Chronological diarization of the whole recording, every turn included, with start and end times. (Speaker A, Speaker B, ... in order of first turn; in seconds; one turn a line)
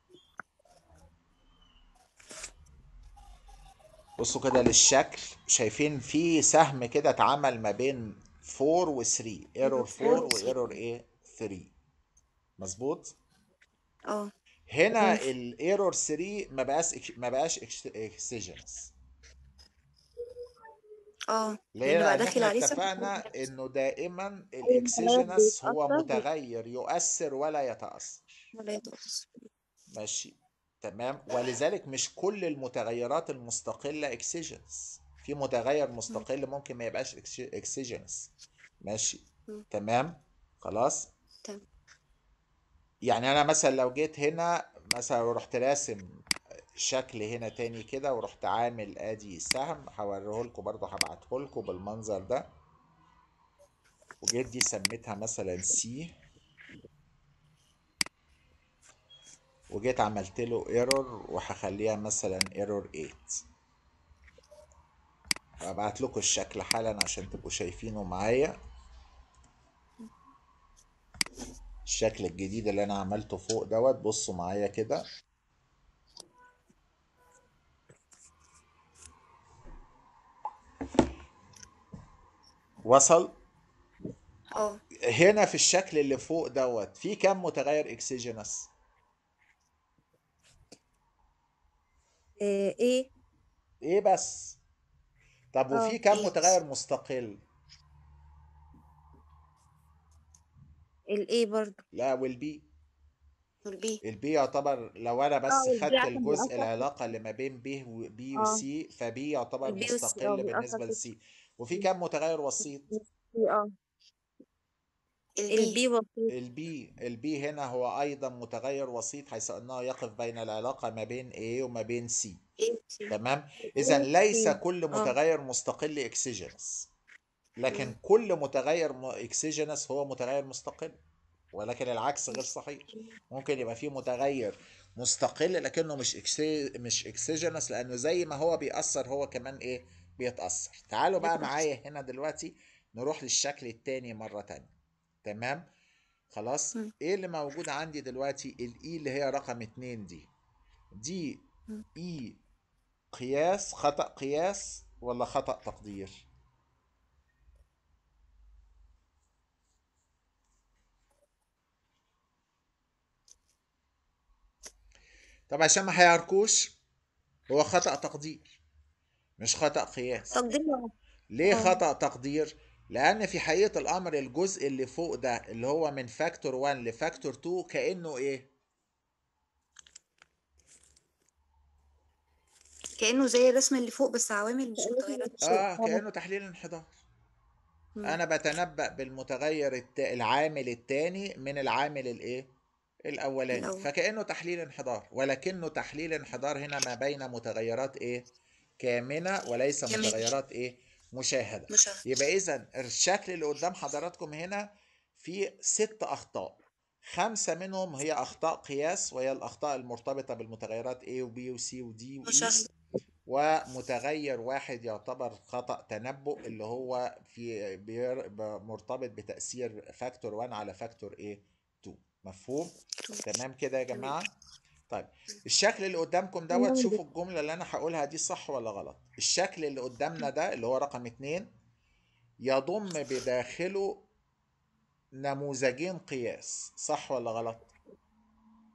Speaker A: 4.2-11.7
Speaker B: 9.7-10.7
Speaker A: 12.6-13.2
Speaker A: 14.7-18.9
Speaker B: 14.9-15.2
Speaker B: 21.3-23.3
Speaker A: 21.8-28.5
Speaker C: 24.6-26.2
Speaker B: 28.5-29.3
Speaker A: 29.9-41.1
Speaker A: 43.0-46.2
Speaker A: 46.8-52.5
Speaker A: 54.2-56.1
Speaker A: 59.7-63.4
Speaker A: 65.6-68.5
Speaker A: 71.9-75.0
Speaker A: 82.8-83.3
Speaker B: 84.5-84.8
Speaker A: 85.0-88.7
Speaker C: 92.4-93.1
Speaker A: 93.8-94.6
Speaker A: 95.5-97.4
Speaker C: 95.7-96.4
Speaker C: 101.1-101.8
Speaker A: 101.9-102.7
Speaker B: 103.7-104.0
Speaker A: 104.0-112.9
Speaker C: 105.5-106.9
Speaker C: 108.4-108.6
Speaker C: 109.7-111.0
Speaker C: 112.9-113.7
Speaker B: 115.4-115.8
Speaker C: 115.5-116.3
Speaker A: 116.3-122.4
Speaker B: 122.6-123.1
Speaker A: 123.1-126.9
Speaker C: 123.8-124.6
Speaker A: 127.6-131.0
Speaker B: 127.7-128.0
Speaker A: 131.5-144.7
Speaker A: 145.2-145.7
Speaker A: 146.3-150.3
Speaker A: 150.9-151.4
Speaker A: 152.0-152.4
Speaker A: 153.1-156.3
Speaker A: 165.5-166.8
Speaker A: 167.5-168.6
Speaker A: 169.4-170.4
Speaker C: 170.3-170.9
Speaker A: 171.3-178.5
Speaker B: 183.0-185.3
Speaker C: 184.8-186.0
Speaker A: 185.4-186.9
Speaker A: 188.0-192.5
Speaker A: 193.1-198.3
Speaker B: 193.5-193.9
Speaker A: 198.8-212.7
Speaker B: 199.9-200.3
Speaker B: 201.7-202.0
Speaker B: 212.3-212.7
Speaker A: 213.3-224.3
Speaker A: 224.9-231.5
Speaker C: 226.5-227.0
Speaker A: 232.4-234.1
Speaker A: 235.2-237.7